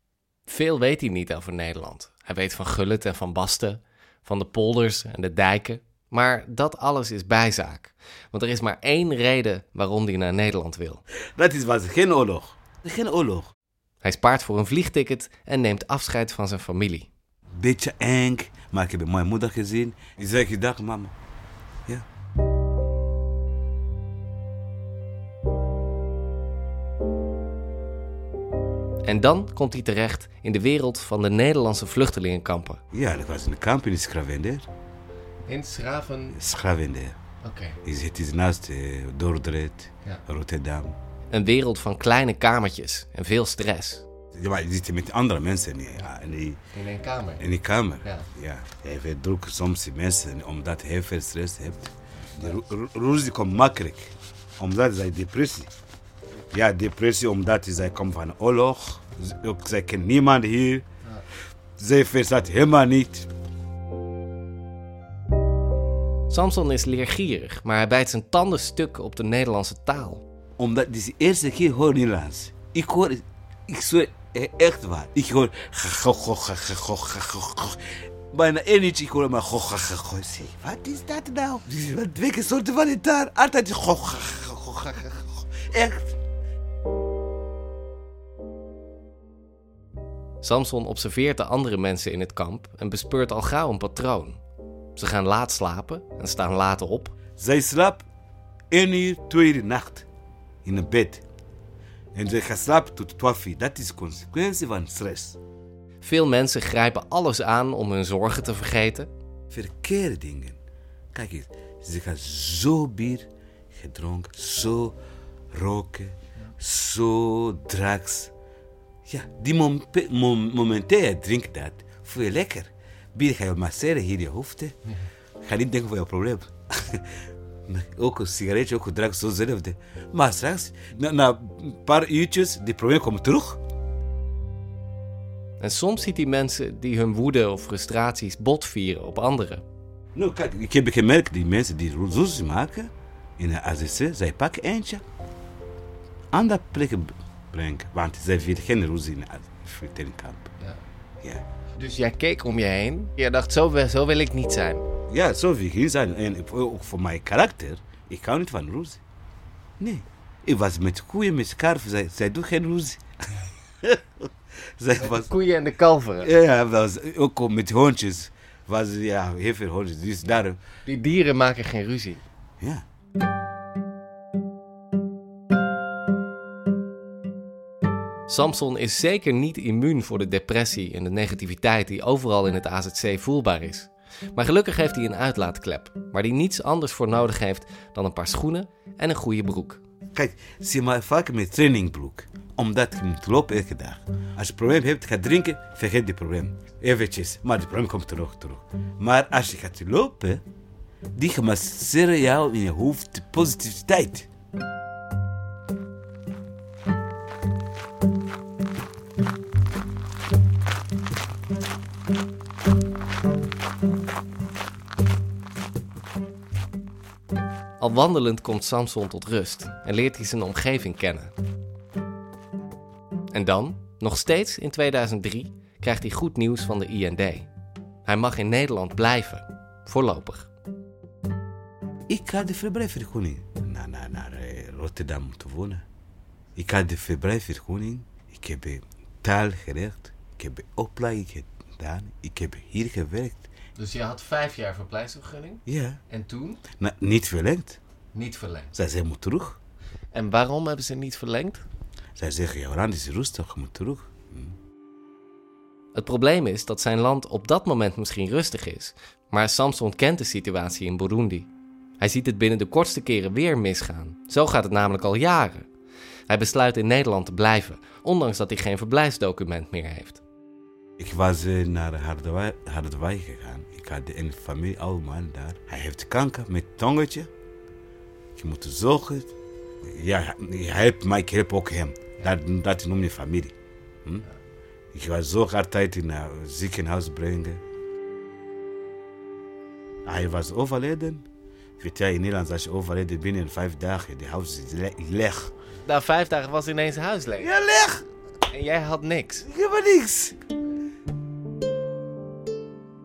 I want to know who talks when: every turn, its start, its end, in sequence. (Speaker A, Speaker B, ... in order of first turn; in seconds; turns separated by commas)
Speaker A: 0.5-11.0, Speaker B: 11.4-13.5, Speaker A: 14.0-17.1, Speaker B: 17.5-21.1, Speaker A: 29.0-32.8, Speaker B: 32.9-34.7, Speaker A: 35.5-36.4, Speaker B: 36.3-37.1, Speaker A: 37.4-37.8, Speaker B: 37.8-41.0, Speaker A: 41.3-44.0, Speaker B: 44.3-46.6, Speaker A: 46.7-47.4, Speaker B: 47.4-55.7, Speaker B: 56.5-60.8, Speaker B: 61.8-63.3, Speaker A: 66.3-70.2, Speaker B: 70.6-86.1, Speaker A: 90.4-94.4, Speaker A: 95.0-97.1, Speaker B: 97.4-98.0, Speaker B: 98.7-100.0, Speaker B: 100.6-101.2, Speaker B: 102.1-105.4, Speaker A: 106.0-109.1, Speaker B: 109.5-110.6, Speaker B: 111.1-115.0, Speaker B: 115.5-118.3, Speaker B: 119.1-124.8, Speaker B: 125.4-127.1, Speaker B: 127.7-133.6, Speaker A: 135.6-139.6, Speaker B: 140.1-145.0, Speaker B: 146.3-150.5, Speaker A: 151.8-154.8, Speaker B: 155.1-159.0, Speaker B: 159.8-164.3, Speaker B: 164.8-165.3, Speaker A: 165.0-166.3, Speaker B: 166.2-170.6, Speaker A: 170.8-172.2, Speaker A: 178.3-189.8, Speaker B: 190.1-200.4, Speaker B: 201.2-204.3, Speaker A: 217.8-221.3, Speaker A: 223.3-227.5, Speaker A: 228.0-230.5, Speaker B: 232.1-235.8, Speaker B: 236.6-243.5, Speaker A: 243.7-246.6, Speaker B: 245.7-246.0, Speaker B: 246.8-247.8, Speaker A: 248.1-248.7, Speaker B: 248.7-249.6, Speaker A: 250.1-251.6, Speaker B: 252.2-254.5, Speaker A: 255.9-265.7, Speaker A: 266.3-270.2, Speaker B: 271.0-277.3, Speaker B: 278.4-279.3, Speaker B: 279.9-283.5, Speaker B: 284.9-287.6, Speaker B: 290.1-291.2, Speaker B: 291.8-295.5, Speaker A: 295.8-297.5, Speaker B: 297.4-298.1, Speaker A: 298.5-299.5, Speaker B: 299.5-300.4